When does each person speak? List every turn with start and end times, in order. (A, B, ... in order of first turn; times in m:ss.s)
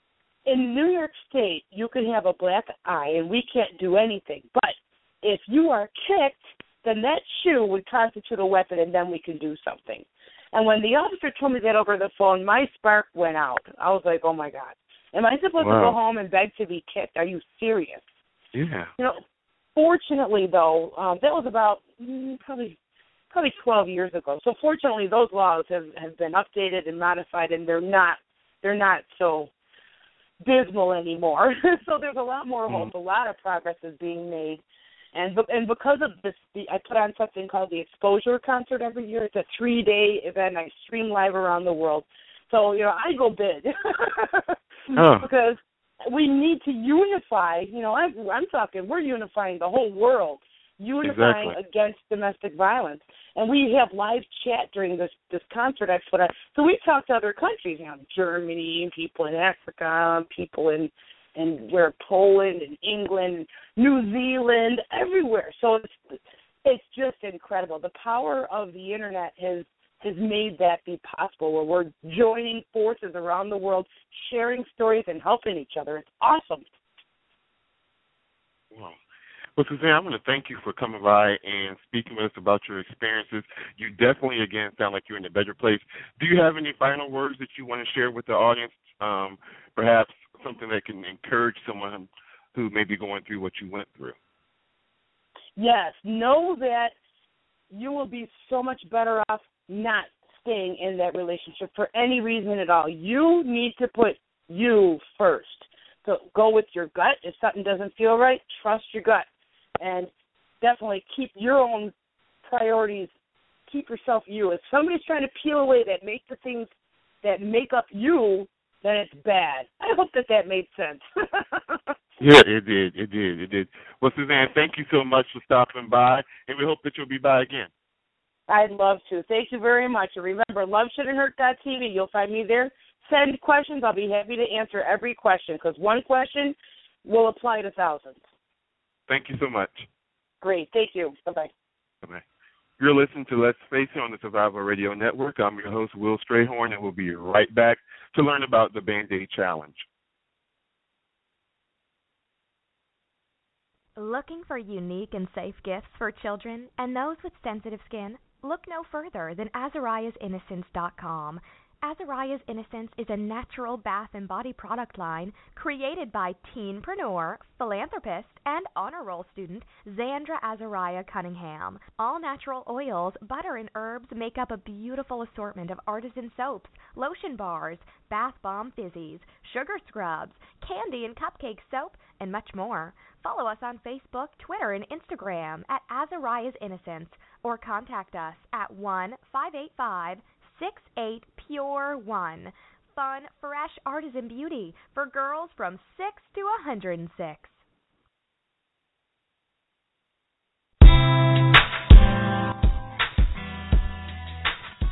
0:00.5-0:18.0 A
0:15.6-0:16.0 B
0:18.5-0:18.9 B
0:19.8-0:22.8 A
0:23.3-0:29.5 A
0:30.4-0:34.6 A
0:35.1-1:16.6 A
0:45.0-0:45.3 B
0:51.0-0:51.6 B
1:18.7-1:19.0 B
1:19.6-1:34.2 B
1:35.6-1:37.0 A
1:37.7-1:49.3 A
1:49.8-1:51.9 A
1:52.4-1:53.1 A
1:53.7-1:56.7 A
1:57.2-2:01.8 A
2:02.2-2:07.7 B
2:08.5-2:18.2 A
2:19.1-2:19.9 B
2:20.4-2:21.5 A
2:22.8-2:29.9 B
2:34.0-3:17.6 C